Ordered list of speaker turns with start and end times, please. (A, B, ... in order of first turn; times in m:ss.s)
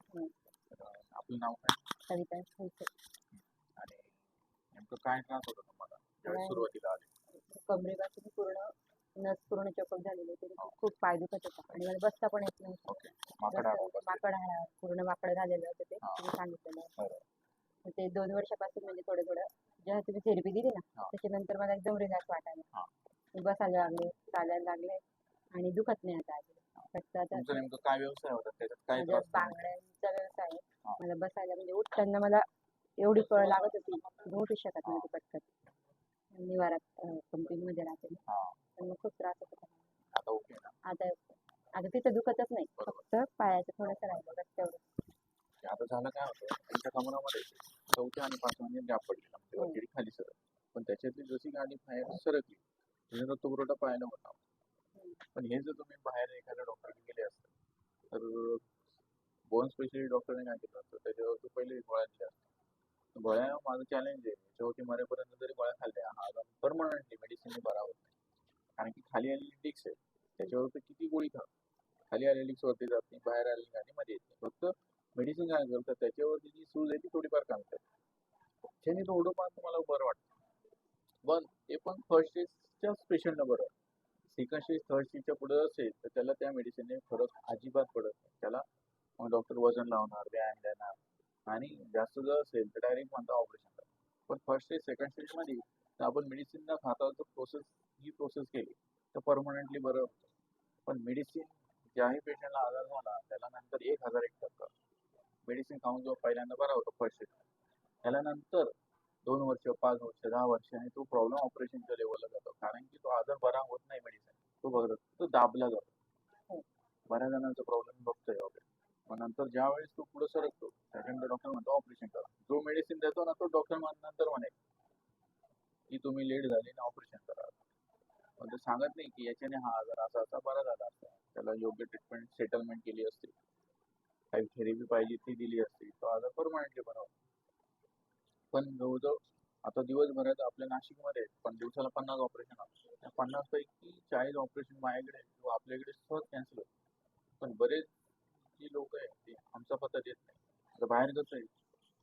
0:00.1-0:00.4 A
0:00.7-0:01.8 B
0:02.1-0:02.9 A
0:03.8-0:04.2 B
0:04.7-0:07.1 B
0:06.2-0:06.7 A
0:07.3-0:16.9 A
0:12.9-0:14.3 B
0:16.0-0:16.3 B
0:17.0-0:17.2 B
0:17.8-0:22.7 A
0:23.3-0:27.5 A
0:26.8-0:29.7 B
0:28.9-0:32.5 A
0:33.0-0:35.5 A
0:34.8-0:35.1 B
0:36.3-0:38.2 A
0:38.3-0:38.6 B
0:38.8-0:39.9 A
0:40.1-0:40.8 B
0:40.8-0:44.8 A
0:42.8-0:43.1 B
0:45.6-0:54.4 B
0:55.0-0:55.2 A
0:55.3-0:57.5 B
0:58.1-0:58.8 B
0:59.5-1:02.4 B
1:03.1-1:08.1 B
1:08.8-1:11.5 B
1:12.1-1:17.8 B
1:18.8-1:20.2 B
1:21.2-1:23.7 B
1:24.3-1:28.6 B
1:29.2-1:40.3 B
1:40.8-1:44.7 B
1:45.4-1:47.4 B
1:48.0-1:55.9 B
1:57.1-2:04.5 B
2:05.9-2:07.6 B
2:08.4-2:13.3 B
2:14.3-2:17.1 B
2:18.5-2:26.7 B
2:27.4-2:27.9 B
2:28.5-2:31.5 B